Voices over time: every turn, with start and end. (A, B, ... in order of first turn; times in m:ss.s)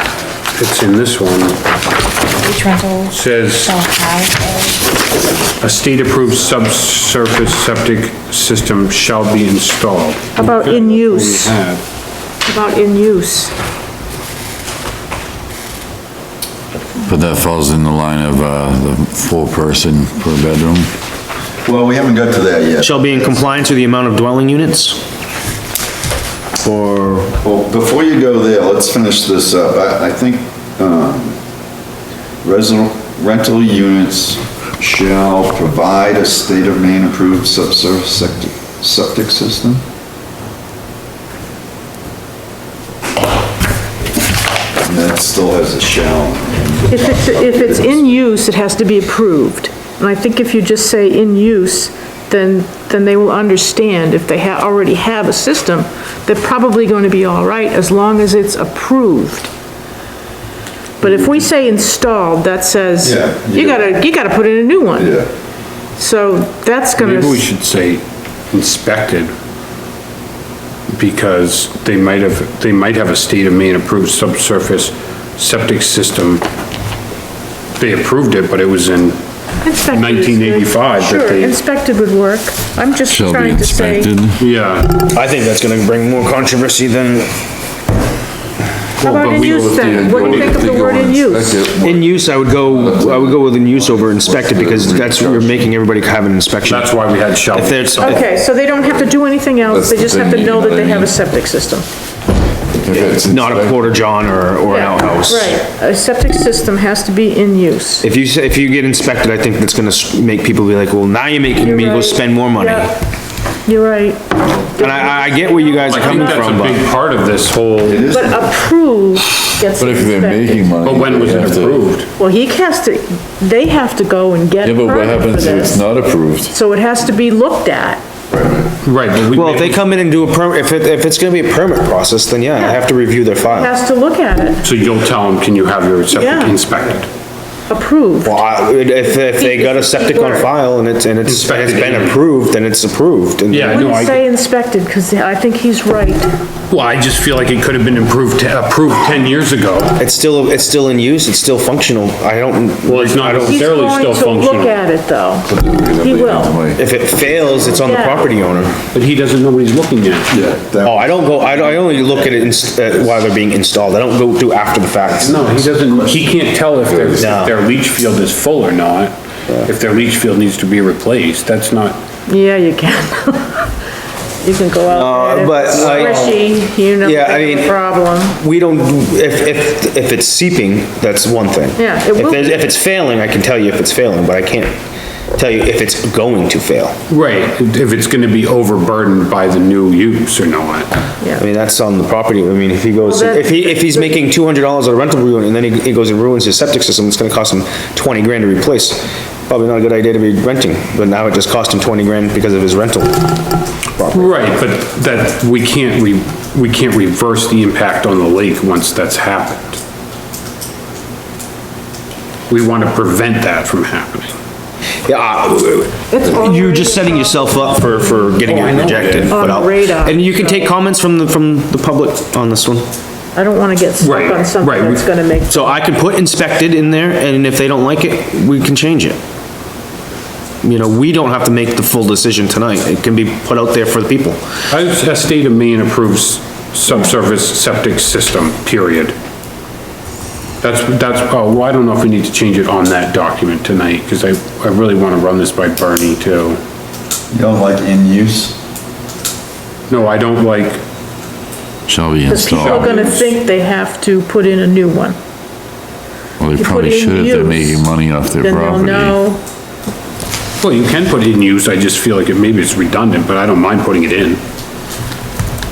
0:00.6-0:01.6 A
0:02.4-0:03.1 B
0:03.1-0:03.8 A
0:03.7-0:04.8 B
0:05.6-0:11.8 A
0:10.4-0:11.5 B
0:12.4-0:13.5 B
0:17.0-0:20.9 C
0:21.6-0:23.3 D
0:22.8-0:25.0 E
0:26.6-0:27.4 E
0:27.4-0:31.4 D
0:32.4-0:39.8 D
0:44.8-0:48.1 D
0:46.9-0:59.5 B
1:01.0-1:05.1 B
1:03.0-1:03.9 D
1:05.0-1:05.3 D
1:06.0-1:07.4 B
1:07.0-1:09.3 A
1:10.9-1:16.4 A
1:17.8-1:19.2 A
1:19.6-1:24.1 B
1:19.9-1:21.6 A
1:23.0-1:24.4 C
1:24.4-1:25.1 A
1:25.1-1:27.3 E
1:29.0-1:31.6 B
1:29.0-1:30.6 A
1:29.2-1:35.7 C
1:31.8-1:38.2 E
1:36.6-1:38.2 A
1:38.0-1:41.8 B
1:39.6-1:41.2 C
1:42.7-1:44.1 C
1:43.2-1:45.6 E
1:44.7-1:48.1 B
1:48.0-1:52.9 E
1:51.6-1:52.9 B
1:53.6-1:56.7 B
1:54.8-1:56.8 E
1:55.9-1:58.1 A
1:57.9-1:58.5 D
1:58.1-2:00.7 B
1:59.8-2:01.9 C
2:00.8-2:02.1 A
2:02.2-2:05.9 B
2:04.6-2:06.5 C
2:06.5-2:08.0 B
2:08.3-2:08.7 C
2:08.8-2:09.8 A
2:09.3-2:13.7 E
2:12.6-2:12.8 B
2:13.4-2:14.6 B
2:14.6-2:17.1 A
2:16.1-2:16.6 B
2:17.7-2:18.4 B
2:18.2-2:23.9 E
2:19.1-2:20.5 B
2:21.2-2:22.2 A
2:23.5-2:24.2 A
2:23.7-2:26.3 B
2:26.7-2:30.0 A
2:30.0-2:33.7 E
2:32.8-2:34.8 A
2:33.4-2:35.5 B
2:35.4-2:37.7 C
2:36.0-2:36.6 B
2:36.7-2:38.8 E
2:37.4-2:38.3 B
2:38.9-2:40.3 A
2:40.3-2:40.6 C
2:40.5-2:42.5 D
2:40.8-2:45.6 E
2:45.2-2:52.0 A
2:46.8-2:47.3 C
2:47.2-2:47.5 E
2:52.3-2:53.7 B
2:54.4-2:58.4 B
2:54.9-3:04.8 E
2:55.7-2:56.3 A
3:01.8-3:02.6 B
3:05.3-3:07.0 E
3:07.1-3:10.9 A
3:11.4-3:23.2 E
3:13.0-3:14.2 B
3:24.0-3:24.4 E
3:24.1-3:29.8 A
3:32.5-3:34.3 A
3:35.0-3:42.9 E
3:36.1-3:37.9 B
3:38.4-3:39.6 A
3:39.3-3:40.7 B
3:43.3-3:45.8 B
3:44.0-3:45.0 A
3:45.5-3:49.2 E
3:50.6-3:54.4 E
3:54.7-3:59.1 A
4:00.6-4:06.6 A
4:07.3-4:08.6 D
4:09.9-4:10.8 A
4:11.9-4:13.0 C
4:12.3-4:15.2 B
4:12.5-4:13.3 A
4:16.4-4:19.2 C
4:16.5-4:19.4 B
4:20.6-4:24.4 A